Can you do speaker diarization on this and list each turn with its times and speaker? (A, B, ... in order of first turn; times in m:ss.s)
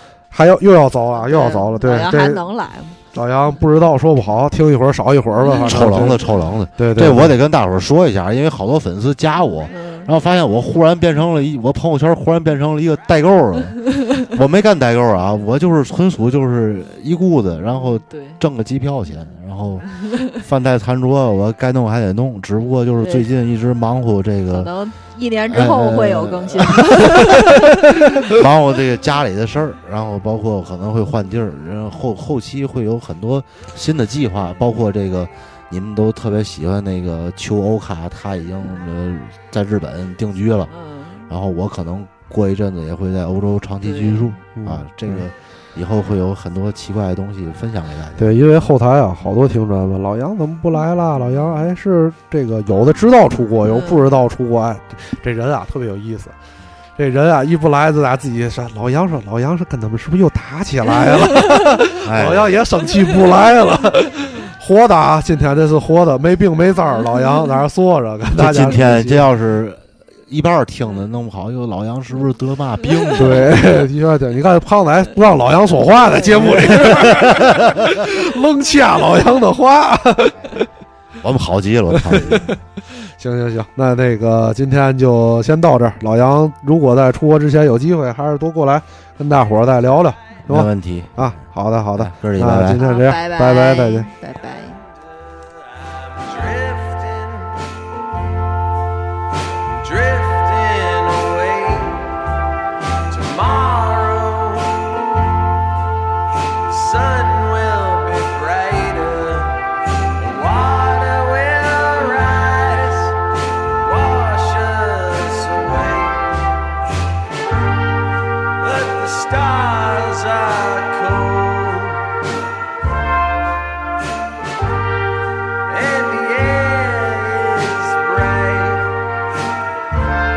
0:00.3-0:02.4 A
0:01.1-0:03.0 B
0:03.1-0:06.2 A
0:05.4-0:06.4 B
0:05.5-0:24.7 C
0:06.8-0:07.3 A
0:09.6-0:10.1 B
0:17.7-0:18.4 B
0:23.0-0:23.3 B
0:24.5-0:28.3 B
0:25.5-0:27.6 C
0:28.3-0:40.7 C
0:40.7-0:41.3 B
0:41.3-0:48.4 C
0:43.8-0:44.4 B
0:44.6-0:45.2 A
0:48.2-0:56.3 A
0:51.2-0:51.6 B
0:53.6-0:54.0 B
0:57.0-1:09.3 A
1:02.0-1:02.5 C
1:08.3-1:13.6 C
1:12.8-1:13.4 B
1:13.2-1:20.6 A
1:16.3-1:17.7 C
1:21.2-1:22.6 C
1:21.9-1:34.1 A
1:30.4-1:32.8 C
1:32.7-1:34.8 B
1:36.2-1:37.7 D
1:39.8-1:42.1 D
1:43.1-1:45.3 D
1:46.7-1:53.2 D
1:53.8-1:56.4 D
1:58.6-2:02.2 D
2:05.6-2:09.0 D